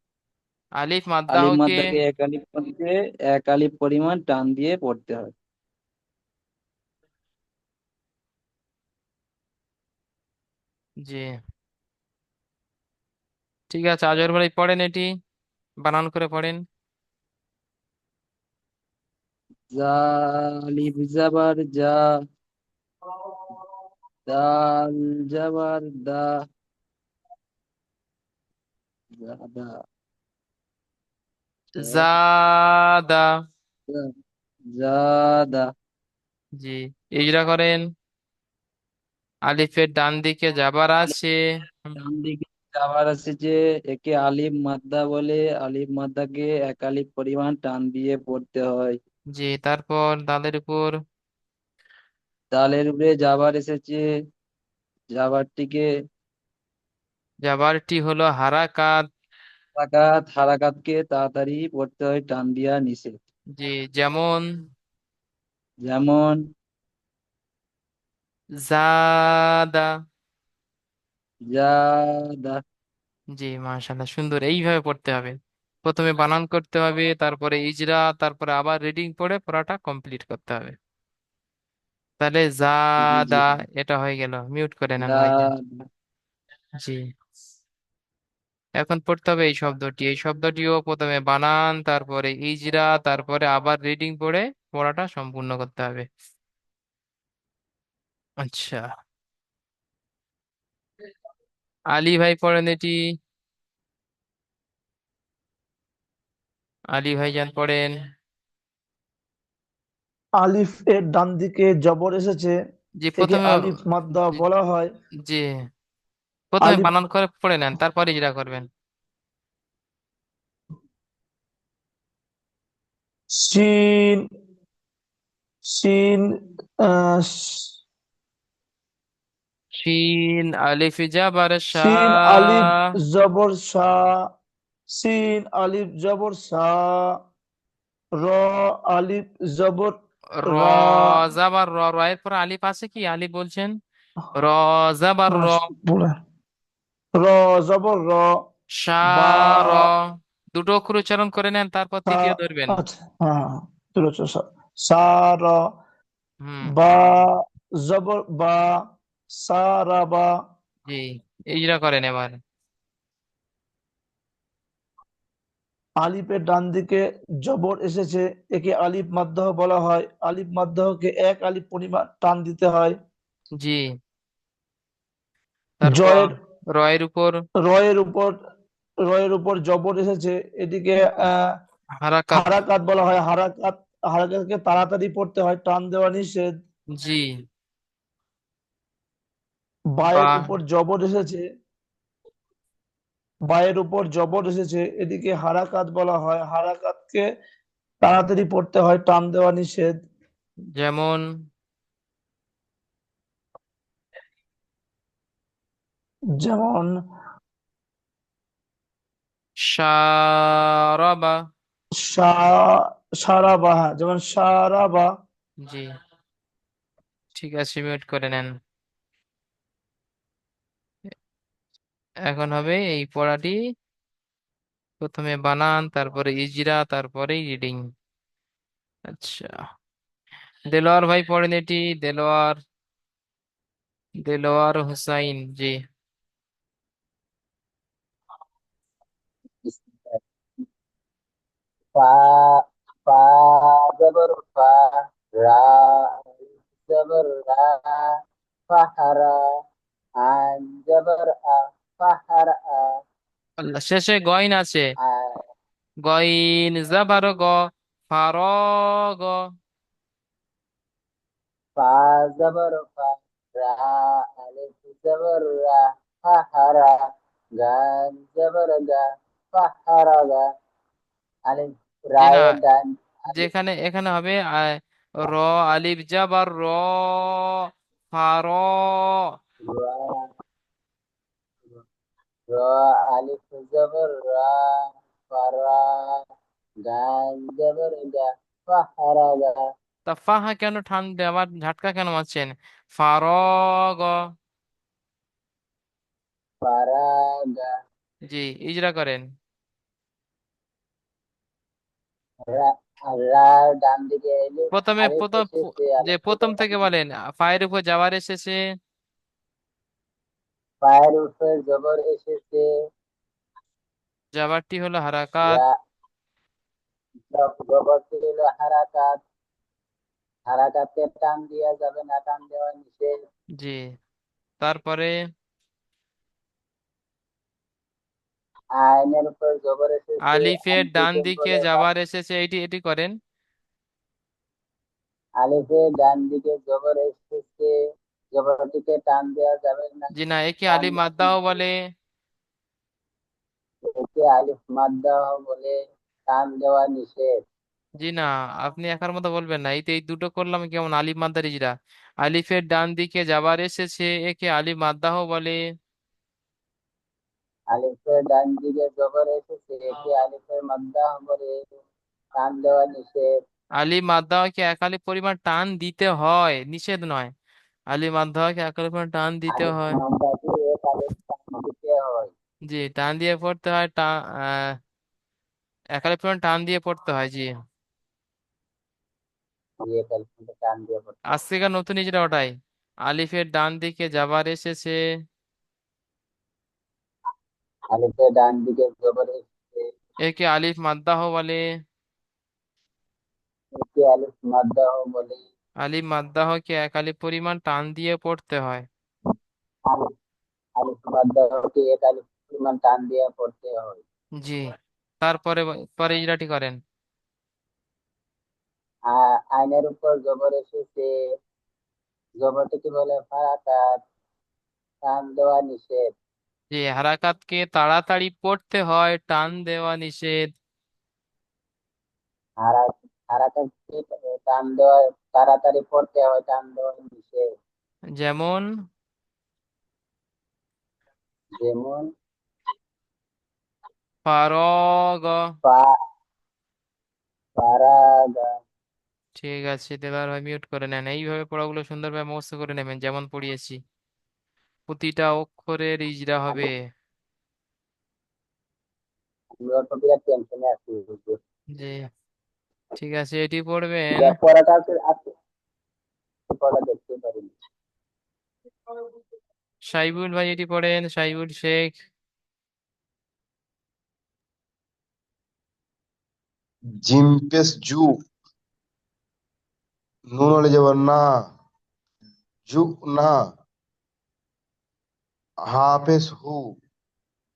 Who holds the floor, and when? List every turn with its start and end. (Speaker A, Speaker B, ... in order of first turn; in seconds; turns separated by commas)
Speaker A: 0.8-1.9, Speaker B: 1.3-5.3, Speaker A: 11.0-11.3, Speaker A: 13.7-15.1, Speaker A: 15.8-16.6, Speaker B: 19.7-22.0, Speaker B: 24.3-26.3, Speaker B: 29.1-29.7, Speaker A: 31.8-33.3, Speaker B: 31.8-32.1, Speaker B: 34.7-35.7, Speaker A: 36.6-37.8, Speaker A: 39.5-42.0, Speaker B: 42.0-49.0, Speaker A: 49.3-50.9, Speaker B: 52.5-54.0, Speaker B: 55.1-55.9, Speaker A: 57.4-59.0, Speaker B: 59.8-63.1, Speaker A: 63.5-64.4, Speaker B: 65.8-66.4, Speaker A: 68.6-69.9, Speaker B: 71.5-72.6, Speaker A: 73.3-75.3, Speaker A: 75.8-80.8, Speaker A: 82.2-85.5, Speaker B: 83.0-83.6, Speaker B: 85.0-85.6, Speaker A: 88.8-96.1, Speaker A: 98.4-98.9, Speaker A: 101.9-103.0, Speaker A: 106.9-107.9, Speaker C: 110.4-112.5, Speaker A: 113.0-113.7, Speaker C: 113.2-114.9, Speaker A: 116.5-118.7, Speaker C: 116.6-116.9, Speaker C: 123.3-124.2, Speaker C: 125.7-126.3, Speaker C: 126.8-127.7, Speaker A: 129.8-132.6, Speaker C: 131.7-134.2, Speaker C: 134.9-137.1, Speaker C: 138.2-141.3, Speaker A: 140.4-143.8, Speaker A: 144.3-145.6, Speaker C: 145.3-146.1, Speaker C: 147.2-148.3, Speaker A: 148.8-150.0, Speaker C: 149.0-149.9, Speaker A: 150.5-152.8, Speaker C: 152.1-155.6, Speaker A: 156.4-156.7, Speaker C: 156.6-158.7, Speaker C: 159.4-160.3, Speaker A: 160.9-162.4, Speaker C: 166.0-172.9, Speaker A: 173.6-173.8, Speaker A: 175.8-177.4, Speaker C: 175.8-176.3, Speaker C: 177.7-178.3, Speaker C: 179.1-181.5, Speaker A: 182.0-182.5, Speaker C: 182.3-186.5, Speaker A: 186.9-187.4, Speaker C: 190.0-191.4, Speaker A: 190.1-190.5, Speaker C: 193.5-197.2, Speaker C: 198.0-199.9, Speaker A: 200.8-201.2, Speaker C: 206.4-206.9, Speaker A: 209.7-211.4, Speaker C: 212.0-212.7, Speaker C: 213.2-215.1, Speaker A: 215.6-215.9, Speaker A: 217.3-218.5, Speaker A: 222.3-223.6, Speaker A: 225.0-227.8, Speaker A: 229.1-229.6, Speaker A: 230.7-232.6, Speaker A: 234.2-235.8, Speaker D: 239.6-240.2, Speaker D: 241.9-246.2, Speaker D: 246.9-248.2, Speaker D: 248.7-249.3, Speaker D: 250.2-253.0, Speaker A: 253.6-254.9, Speaker D: 255.0-255.4, Speaker A: 256.0-259.4, Speaker D: 261.8-267.1, Speaker D: 267.6-270.4, Speaker D: 271.5-273.5, Speaker A: 272.2-272.5, Speaker A: 273.3-279.3, Speaker D: 279.6-280.3, Speaker D: 282.5-286.2, Speaker D: 286.9-289.6, Speaker A: 290.1-294.1, Speaker D: 296.6-297.7, Speaker A: 298.3-299.2, Speaker D: 302.5-306.8, Speaker A: 304.7-308.6, Speaker D: 310.8-312.7, Speaker A: 314.3-315.6, Speaker D: 315.4-315.7, Speaker D: 317.3-319.2, Speaker D: 320.5-323.1, Speaker A: 324.6-325.1, Speaker D: 328.8-331.8, Speaker A: 330.3-333.1, Speaker D: 335.4-337.7, Speaker D: 338.3-340.1, Speaker A: 340.1-341.7, Speaker D: 340.7-341.3, Speaker D: 343.9-345.8, Speaker D: 346.3-347.4, Speaker A: 348.0-355.6, Speaker D: 357.7-361.6, Speaker D: 362.4-363.3, Speaker A: 363.8-367.3, Speaker A: 367.9-370.0, Speaker D: 369.5-372.3, Speaker A: 372.7-374.8, Speaker A: 376.0-377.5, Speaker D: 379.9-381.2, Speaker A: 381.3-382.5, Speaker A: 383.1-385.0, Speaker D: 387.9-389.9, Speaker A: 390.2-391.6, Speaker D: 393.8-395.4, Speaker A: 395.8-398.9, Speaker D: 400.8-404.0, Speaker A: 404.4-406.8, Speaker D: 409.1-411.1, Speaker D: 412.4-414.0, Speaker D: 415.1-416.1, Speaker A: 416.7-420.5, Speaker D: 422.6-427.5, Speaker A: 428.2-428.6, Speaker D: 431.6-432.1, Speaker A: 434.2-435.5, Speaker D: 435.6-435.9, Speaker D: 437.6-438.5, Speaker A: 439.4-443.8, Speaker A: 444.9-446.8, Speaker D: 449.6-451.4, Speaker A: 451.8-452.0, Speaker A: 452.9-454.4, Speaker D: 454.2-455.3, Speaker D: 456.5-457.6, Speaker A: 459.9-462.0, Speaker E: 467.1-468.1, Speaker E: 470.3-471.2, Speaker E: 472.7-473.3, Speaker E: 475.7-476.8